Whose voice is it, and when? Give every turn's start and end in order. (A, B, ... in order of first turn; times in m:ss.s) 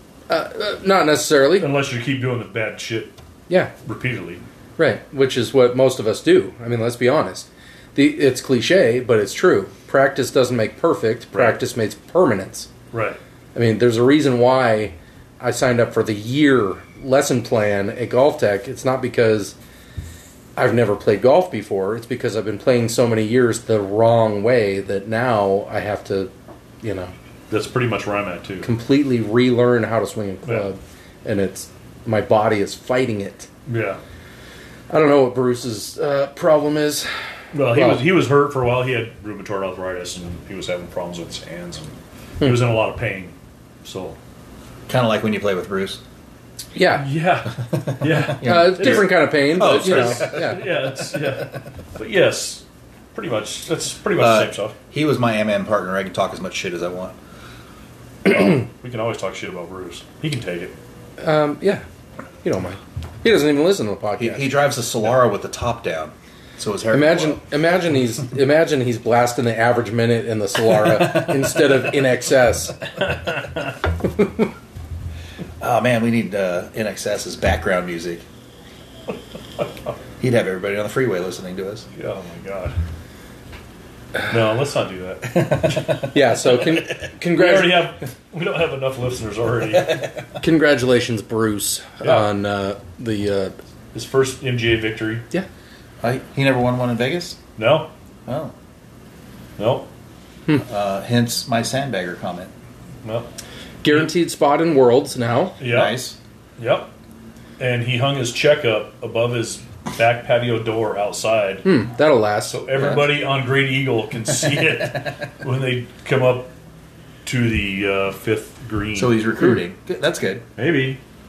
0:00.3-0:01.7 A
0:01.6-0:03.1 B
0:03.8-0:04.4 B
0:04.8-0:12.7 A
0:11.3-0:11.6 B
0:12.9-0:13.2 B
0:13.5-0:19.5 A
0:20.6-0:26.3 A
0:26.8-0:27.1 A
0:27.5-0:28.7 B
0:28.6-0:33.5 A
0:33.7-0:34.0 B
0:34.9-0:37.1 A
0:37.5-0:44.2 B
0:37.7-0:38.0 A
0:44.9-0:46.0 C
0:46.7-0:47.1 A
0:46.9-0:52.6 B
0:47.7-0:50.6 C
0:48.4-0:50.6 A
0:53.1-0:54.7 B
0:54.2-0:57.1 C
0:58.3-1:00.7 B
1:01.2-1:01.8 A
1:02.4-1:04.5 A
1:04.2-1:07.4 C
1:06.9-1:12.8 A
1:13.1-1:13.6 B
1:15.6-1:18.2 C
1:20.2-1:21.9 C
1:21.9-1:22.7 B
1:24.3-1:26.0 B
1:25.5-1:25.8 C
1:26.1-1:27.9 A
1:27.3-1:30.0 B
1:30.4-1:33.5 A
1:33.9-1:35.2 B
1:36.0-1:37.4 C
1:37.6-1:37.9 B
1:38.3-1:38.5 C
1:39.6-1:39.9 B
1:40.6-1:42.5 C
1:43.8-1:45.6 A
1:45.6-1:46.0 B
1:45.6-1:46.2 C
1:46.6-1:46.9 B
1:47.6-1:51.7 B
1:51.6-1:52.6 A
1:52.5-1:56.5 B
1:57.2-1:59.2 B
1:59.0-2:00.4 C
2:00.6-2:01.0 B